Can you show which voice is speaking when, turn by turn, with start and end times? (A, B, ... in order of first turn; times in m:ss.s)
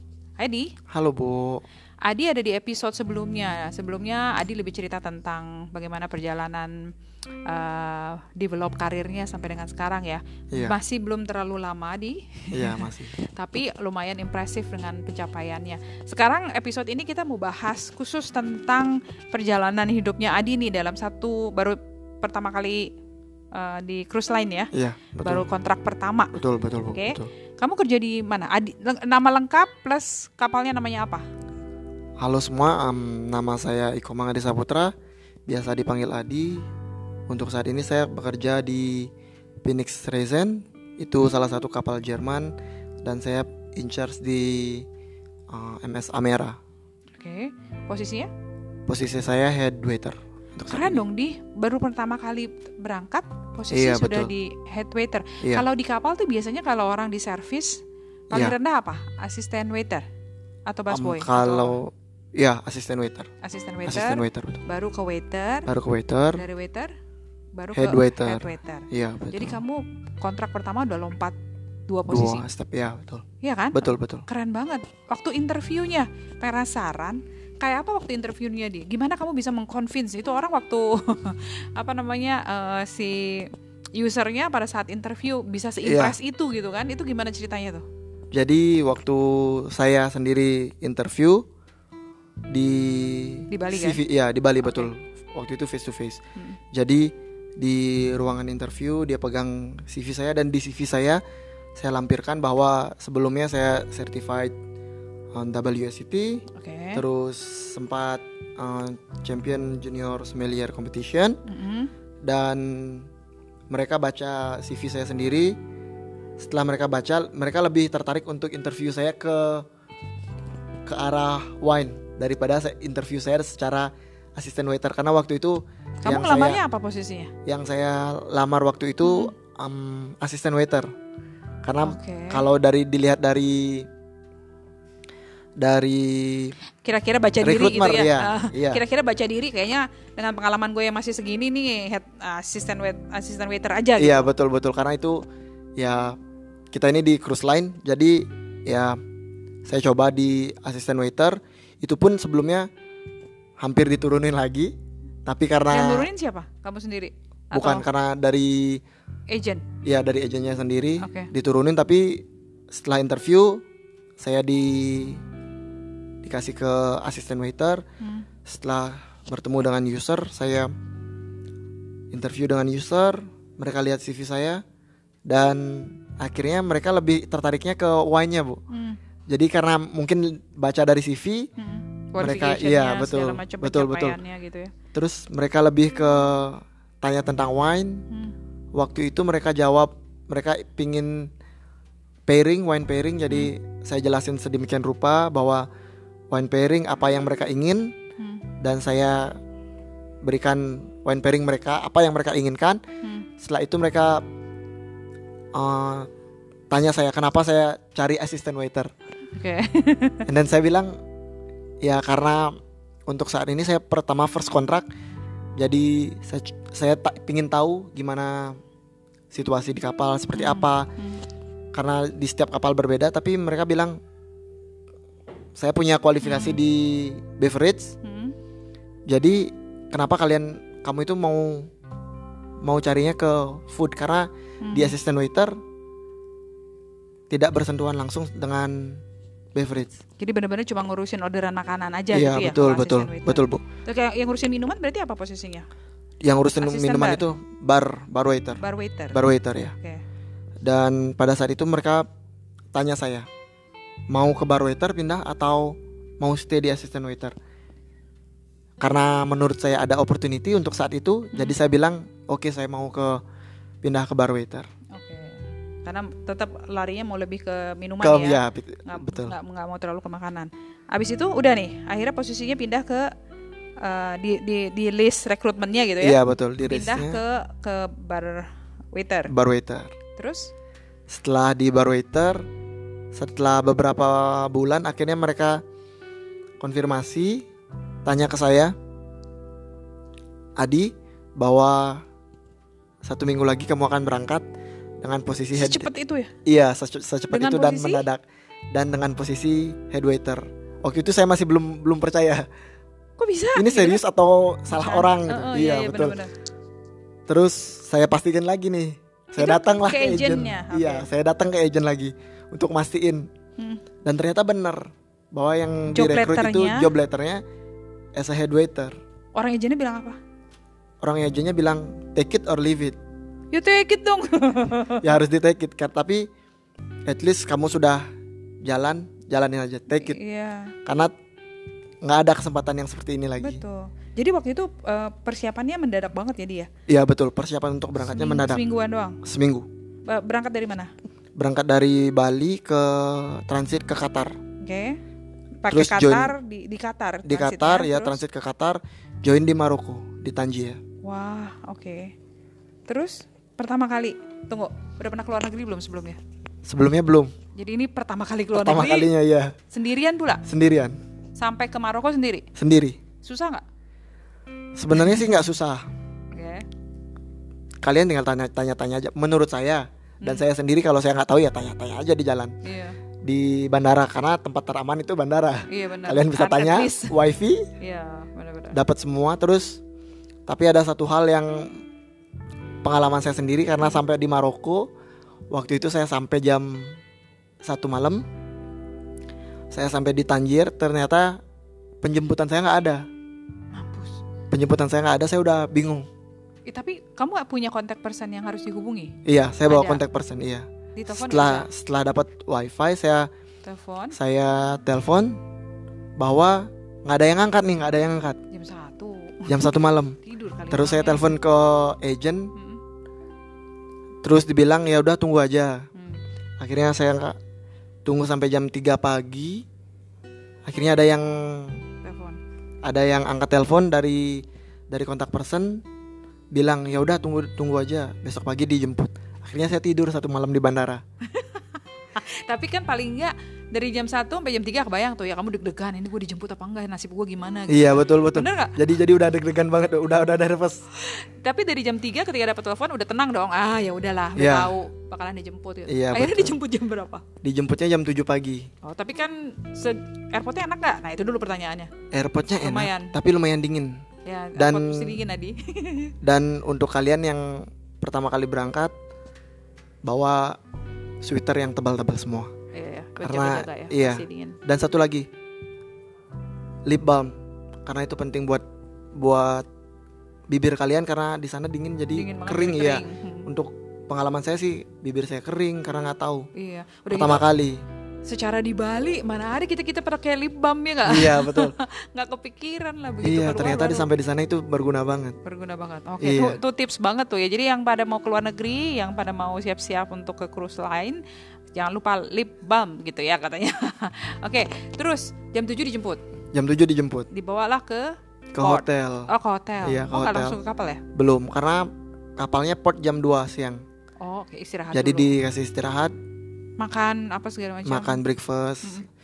0:00.4-0:00.7 A
0:00.9-0:01.6 B
0:02.0-0:06.8 A
0:07.5-0:22.9 A
0:12.5-0:13.2 B
0:23.5-0:24.7 A
0:24.7-0:25.5 B
0:25.2-0:26.4 A
0:26.3-0:27.3 B
0:26.9-0:31.2 A
0:32.2-0:34.9 B
0:35.5-0:36.7 B
0:37.3-0:39.1 B
0:39.6-0:44.9 B
0:45.5-0:46.6 B
0:47.2-0:48.3 A
0:48.9-0:51.0 B
0:50.7-1:00.1 A
0:53.7-0:54.3 B
1:00.7-1:01.8 A
1:00.9-1:03.3 B
1:03.4-1:05.7 A
1:03.9-1:04.6 B
1:05.7-1:06.4 B
1:06.3-1:06.9 A
1:07.6-1:11.4 A
1:07.7-1:09.6 B
1:11.9-1:12.5 A
1:12.1-1:14.2 B
1:13.4-1:27.9 A
1:25.8-1:26.2 B
1:28.3-1:31.5 B
1:32.5-1:36.2 B
1:33.5-1:34.0 A
1:34.6-1:34.9 A
1:36.7-1:41.2 B
1:41.8-1:44.6 B
1:45.3-1:51.4 B
1:46.5-1:47.0 A
1:51.5-1:51.9 A
1:52.2-1:53.1 B
1:53.7-1:55.6 B
1:56.4-1:59.7 B
2:00.9-2:06.6 B
2:06.0-2:07.3 A
2:07.4-2:10.9 B
2:09.0-2:09.3 A
2:11.6-2:13.9 B
2:11.8-2:12.4 A
2:15.6-2:16.6 B
2:16.8-2:24.3 A
2:17.4-2:18.8 B
2:24.0-2:25.2 B
2:25.8-2:26.2 B
2:26.7-2:29.0 B
2:29.6-2:32.7 B
2:33.6-2:34.7 B
2:35.3-2:36.1 B
2:35.7-2:37.9 A
2:37.5-2:38.8 B
2:39.3-2:39.7 A
2:39.8-2:43.6 B
2:41.0-2:41.3 A
2:44.2-2:45.2 B
2:46.2-2:47.8 B
2:48.0-2:48.3 A
2:48.5-2:50.7 B
2:52.1-2:54.6 B
2:55.3-2:58.6 B
2:58.7-2:59.0 A
2:59.3-3:01.5 B
3:01.6-3:04.7 A
3:02.2-3:04.2 B
3:04.9-3:08.1 B
3:08.7-3:11.3 B
3:12.3-3:15.7 B
3:16.3-3:18.0 B
3:18.2-3:18.5 A
3:18.6-3:19.4 B
3:20.2-3:22.8 B
3:23.4-3:24.2 B
3:25.5-3:26.1 B
3:26.7-3:28.9 B
3:29.3-3:30.3 A
3:30.3-3:31.0 B
3:31.8-3:34.9 B
3:35.6-3:38.6 B
3:39.3-3:40.9 B
3:40.3-3:41.2 A
3:41.7-3:44.0 B
3:45.6-3:48.0 B
3:46.2-3:46.6 A
3:48.0-3:48.4 A
3:49.1-3:51.7 B
3:52.6-3:55.5 B
3:54.6-3:55.0 A
3:57.3-3:59.0 B
3:59.6-4:00.0 B
4:00.2-4:05.7 A
4:02.1-4:03.6 B
4:06.2-4:09.8 B
4:06.6-4:07.2 A
4:08.6-4:09.2 A
4:10.6-4:12.1 B
4:12.7-4:13.3 B
4:14.1-4:17.4 B
4:18.8-4:23.2 B
4:23.8-4:24.7 B
4:24.9-4:33.1 A
4:28.0-4:29.4 B
4:33.8-4:39.3 A
4:36.0-4:37.2 B
4:39.3-4:40.0 B
4:40.2-4:40.5 A
4:41.1-4:42.4 B
4:43.1-4:45.6 B
4:46.6-4:47.5 B
4:48.0-4:48.7 B
4:50.6-4:52.0 B
4:53.0-4:54.5 B
4:55.0-4:55.9 B
4:55.6-4:56.3 A
4:56.4-5:02.5 B
4:57.3-4:58.0 A
5:03.2-5:04.0 A
5:03.6-5:06.2 B
5:04.7-5:06.3 A
5:07.3-5:13.3 B
5:09.4-5:11.1 A
5:13.6-5:13.8 A
5:14.0-5:17.4 B
5:15.9-5:16.9 A
5:18.2-5:19.0 B
5:19.4-5:20.2 A
5:21.0-5:23.0 B
5:23.5-5:25.1 A
5:25.0-5:26.3 B
5:27.1-5:28.0 B
5:28.6-5:30.2 B
5:29.9-5:30.8 A
5:30.8-5:31.1 B
5:32.0-5:33.6 B
5:33.4-5:36.7 A
5:36.9-5:38.6 B
5:38.1-5:39.2 A
5:39.2-5:39.7 B
5:40.1-5:40.9 A
5:41.4-5:44.4 B
5:44.6-5:45.0 A
5:45.6-5:48.2 A
5:45.7-5:46.4 B
5:47.2-5:50.8 B
5:51.0-5:52.1 A
5:52.9-5:56.2 A
5:56.6-5:57.3 B
5:57.6-5:59.1 A
5:58.5-5:59.6 B
5:59.7-6:00.4 A
6:00.4-6:01.0 B
6:01.4-6:02.5 A
6:02.6-6:03.0 B
6:03.2-6:03.6 A
6:04.8-6:05.9 B
6:04.9-6:05.4 A
6:06.3-6:06.7 A
6:07.8-6:12.6 B
6:12.6-6:13.0 A
6:13.2-6:17.7 B
6:15.7-6:17.2 A
6:17.8-6:18.8 A
6:18.7-6:19.8 B
6:20.5-6:21.8 B
6:22.8-6:24.9 B
6:25.5-6:27.0 B
6:27.6-6:28.2 B
6:29.7-6:31.4 B
6:32.0-6:33.1 B
6:33.7-6:34.2 A
6:34.5-6:36.1 B
6:36.7-6:39.2 A
6:39.2-6:43.3 B
6:39.7-6:40.0 A
6:41.0-6:41.7 A
6:43.6-6:44.2 A
6:44.1-6:45.4 B
6:46.2-6:48.4 B
6:48.5-6:51.4 A
6:49.5-6:50.2 B
6:50.7-6:52.5 B
6:52.6-6:52.8 A
6:54.2-6:55.9 B
6:56.0-6:56.2 A
6:56.6-6:57.4 B
6:58.0-6:59.6 B
7:00.7-7:01.8 B
7:02.0-7:02.4 A
7:02.8-7:05.8 B
7:06.5-7:11.0 B
7:11.3-7:18.8 A
7:17.7-7:20.8 B
7:21.0-7:27.2 A
7:24.4-7:24.8 B
7:25.9-7:26.6 B
7:27.4-7:28.7 B
7:28.8-7:31.9 A
7:32.1-7:34.0 B
7:32.6-7:33.1 A
7:34.2-7:36.2 A
7:34.6-7:35.2 B
7:36.2-7:38.9 B
7:40.0-7:40.6 B
7:41.2-7:42.5 B
7:42.7-7:44.6 A
7:43.2-7:45.3 B
7:46.9-7:47.3 B
7:47.8-7:48.6 B
7:49.2-7:49.7 B
7:50.5-7:56.5 B
7:52.1-7:53.5 A
7:56.6-7:57.4 A
7:57.1-7:57.8 B
7:58.3-8:04.1 A
8:01.0-8:01.8 B
8:03.2-8:05.4 B
8:05.4-8:11.2 A
8:06.2-8:06.6 B
8:11.7-8:16.2 A
8:16.5-8:17.3 B
8:17.3-8:21.0 A
8:18.5-8:19.3 B
8:19.8-8:20.6 B
8:21.1-8:23.8 B
8:24.2-8:25.4 A
8:24.9-8:26.1 B
8:26.8-8:28.2 A
8:27.8-8:29.0 B